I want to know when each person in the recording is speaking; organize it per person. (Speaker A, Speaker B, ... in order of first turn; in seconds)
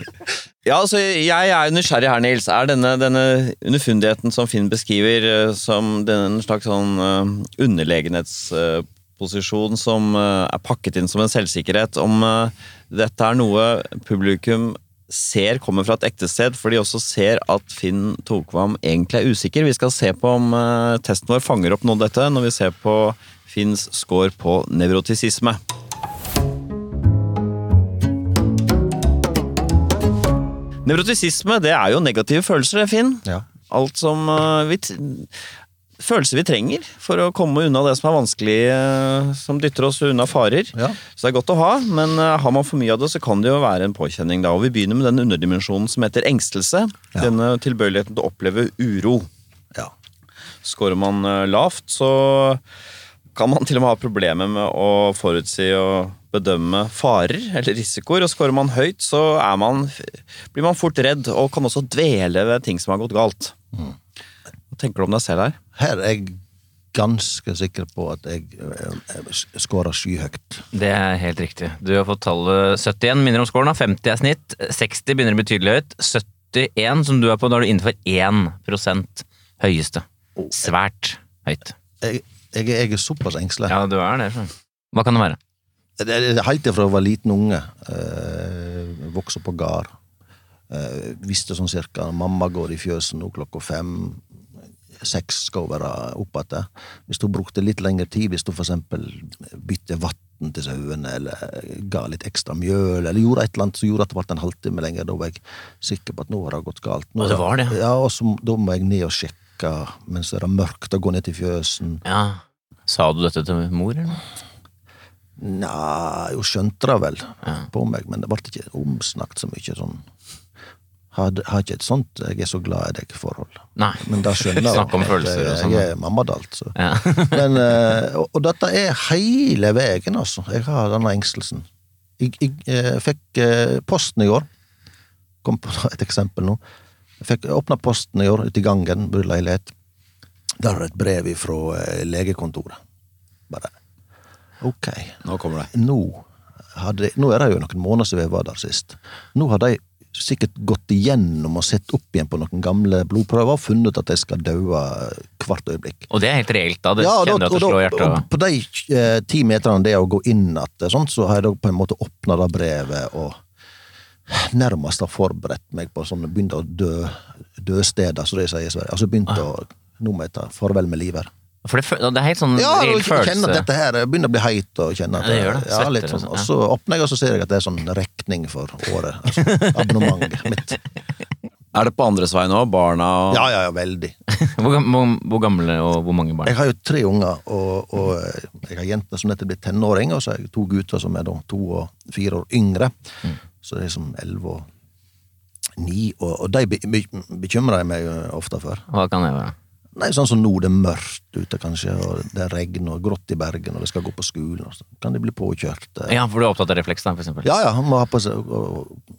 Speaker A: 0.7-25.6, 30.9-35.3, 36.0-49.3, 50.6-52.6, 53.4-63.5, 64.7-65.6, 145.2-145.7, 181.7-183.5
Speaker B: 65.8-66.4, 66.9-70.6, 82.0-83.8, 86.0-89.9, 90.7-94.2, 95.0-112.0, 115.4-120.0, 121.1-131.7, 132.2-134.5, 135.4-136.6, 137.2-139.7, 140.6-142.8, 144.6-156.1, 157.0-163.4, 164.3-171.3, 172.6-180.8, 183.3-184.1, 186.4-192.9, 193.6-194.7, 195.8-198.9, 199.9-206.2, 207.4-209.0
Speaker C: 70.7-81.8, 83.7-85.4, 107.2-107.8, 112.0-114.2, 123.8-125.9, 126.8-127.5, 156.1-158.2, 171.6-173.7, 175.2-176.5, 184.3-186.5, 198.9-199.6, 206.1-207.5